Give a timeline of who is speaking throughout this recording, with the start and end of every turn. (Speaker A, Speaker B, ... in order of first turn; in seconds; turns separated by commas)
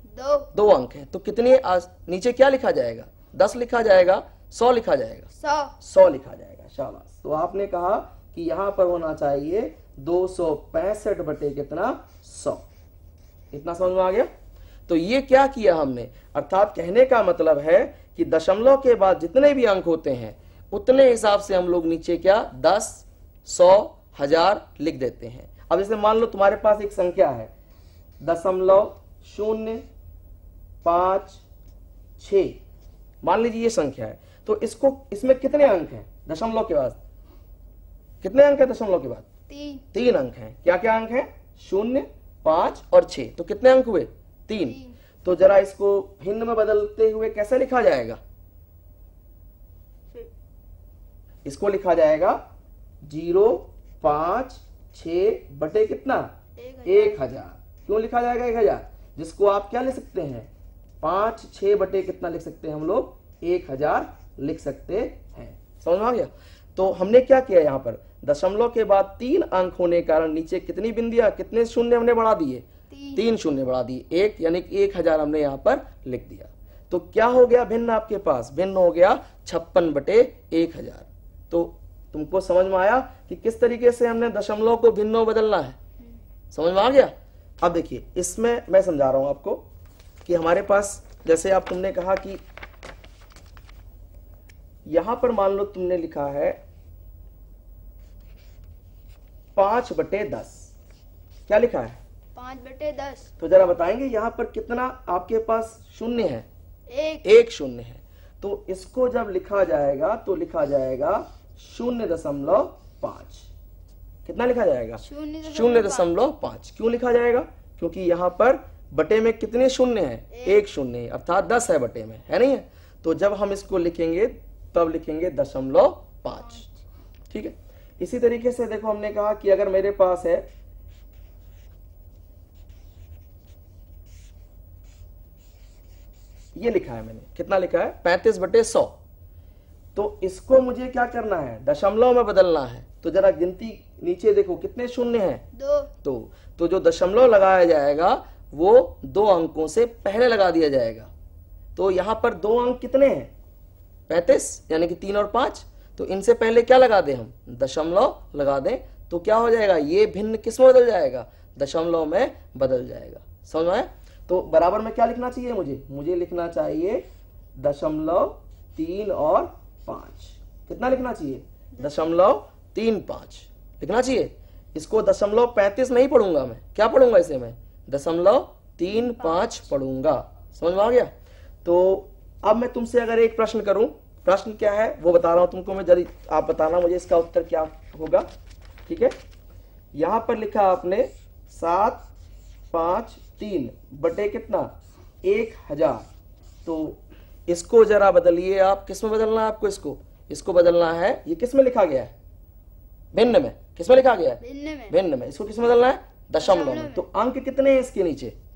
Speaker A: 0.1-0.5, Speaker B: 0.5-12.7, Speaker A: 5.4-5.7, Speaker B: 13.5-14.3, Speaker B: 14.9-27.5, Speaker B: 28.2-29.9, Speaker B: 30.8-31.4, Speaker B: 32.2-32.6, Speaker B: 33.2-37.0, Speaker B: 38.2-39.2, Speaker A: 39.5-39.9, Speaker B: 39.9-48.2, Speaker A: 44.6-45.0, Speaker B: 51.5-52.4, Speaker B: 53.0-56.3, Speaker A: 56.6-57.2, Speaker B: 56.9-60.5, Speaker B: 61.0-85.8, Speaker A: 72.9-73.2, Speaker B: 86.5-89.6, Speaker B: 90.2-92.4, Speaker B: 94.9-96.6, Speaker B: 99.5-100.7, Speaker B: 101.5-102.0, Speaker A: 102.3-103.3, Speaker B: 103.4-106.5, Speaker A: 106.9-107.2, Speaker B: 107.2-113.5, Speaker B: 114.2-126.7, Speaker A: 115.0-116.2, Speaker A: 120.3-120.7, Speaker A: 126.3-126.7, Speaker B: 127.3-130.5, Speaker B: 136.6-139.0, Speaker B: 139.9-145.4, Speaker A: 145.6-145.9, Speaker B: 146.0-151.1, Speaker B: 151.8-153.3, Speaker B: 154.1-167.0, Speaker B: 167.6-181.1, Speaker A: 179.1-179.6, Speaker B: 181.6-188.3, Speaker B: 188.9-189.2, Speaker B: 189.9-192.1, Speaker B: 192.7-196.1, Speaker B: 196.7-202.1, Speaker B: 203.1-208.3, Speaker A: 204.4-204.9, Speaker A: 206.4-207.0